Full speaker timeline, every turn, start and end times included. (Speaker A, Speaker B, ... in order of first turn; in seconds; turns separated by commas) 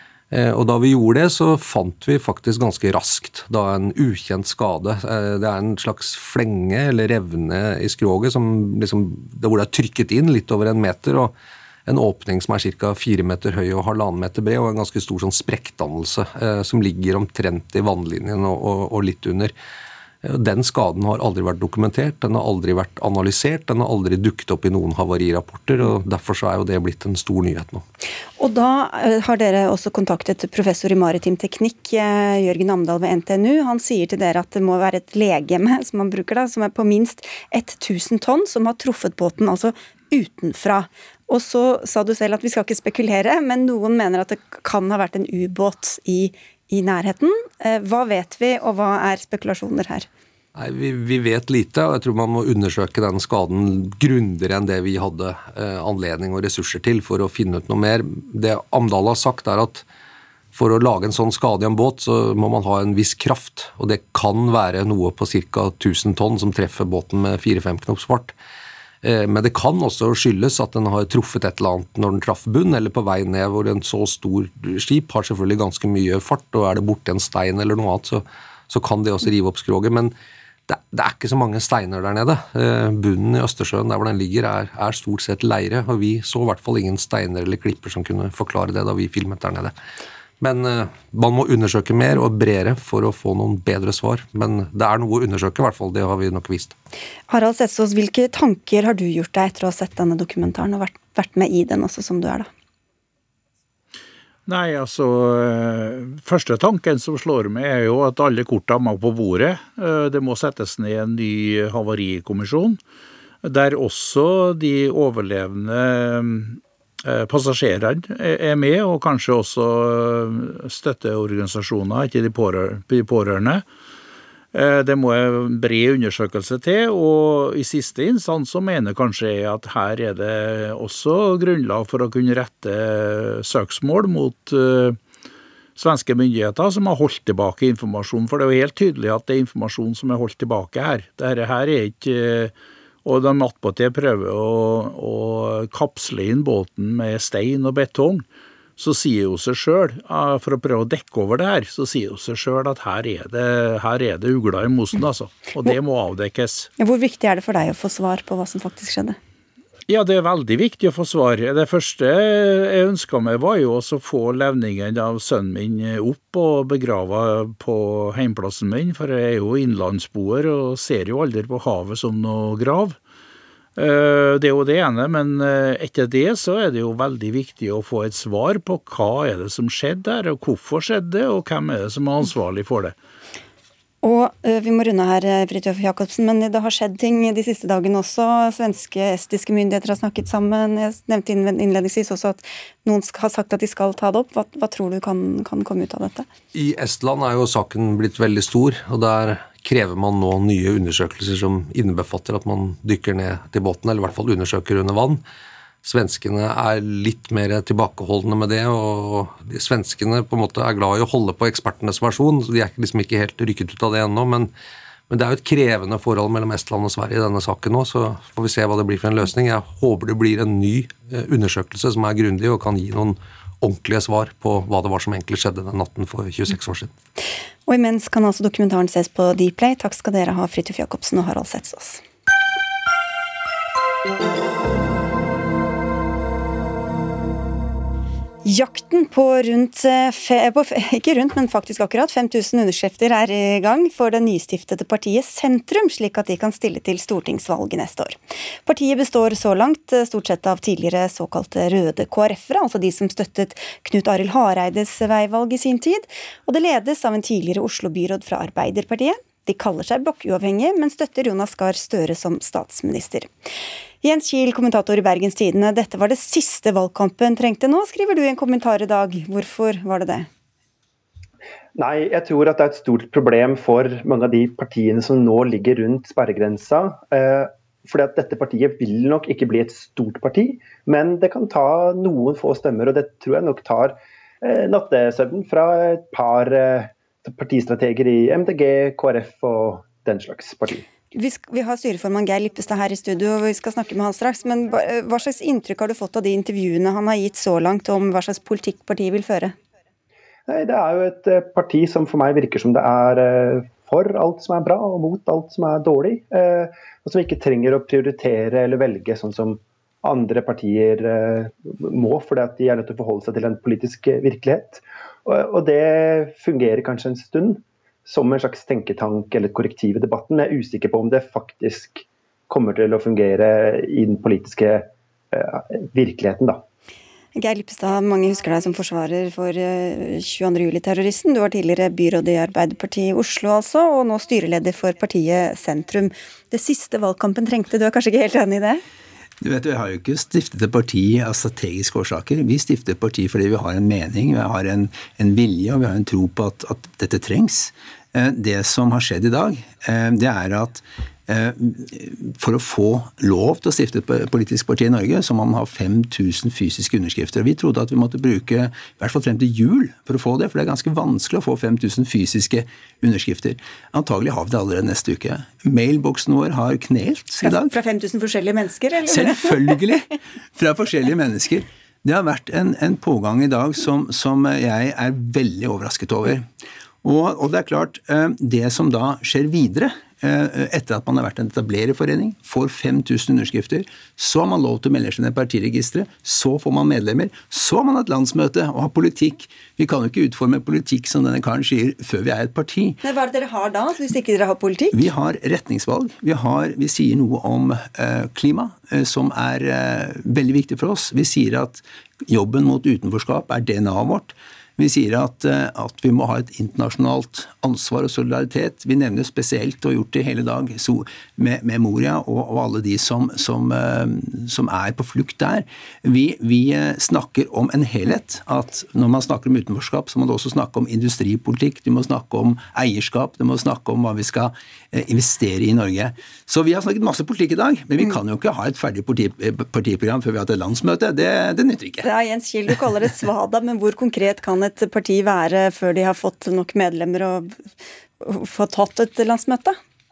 Speaker A: 0.3-11.3, Speaker A: 11.8-19.5, Speaker A: 20.2-27.9, Speaker B: 28.4-50.1, Speaker A: 50.5-59.9, Speaker A: 60.5-68.3, Speaker A: 69.0-80.1, Speaker A: 80.7-89.7, Speaker A: 90.4-96.8, Speaker B: 97.3-102.5, Speaker C: 104.5-112.8, Speaker C: 113.4-123.7, Speaker C: 124.5-135.0, Speaker C: 135.8-142.5, Speaker C: 143.0-148.2, Speaker C: 148.8-156.7, Speaker B: 156.8-159.2, Speaker C: 159.9-173.0, Speaker C: 173.8-182.9, Speaker B: 184.0-196.3, Speaker A: 196.5-205.2, Speaker A: 205.8-214.5, Speaker A: 215.1-226.9, Speaker B: 227.7-232.0, Speaker B: 238.4-263.3, Speaker B: 264.0-270.3, Speaker D: 271.8-290.9, Speaker B: 291.1-299.5, Speaker D: 300.5-326.6, Speaker B: 327.4-338.8, Speaker E: 339.4-367.7, Speaker B: 367.4-369.7, Speaker E: 369.1-376.5, Speaker E: 377.0-393.0, Speaker B: 393.0-395.0, Speaker E: 394.9-432.1, Speaker B: 432.0-437.6, Speaker B: 438.2-439.8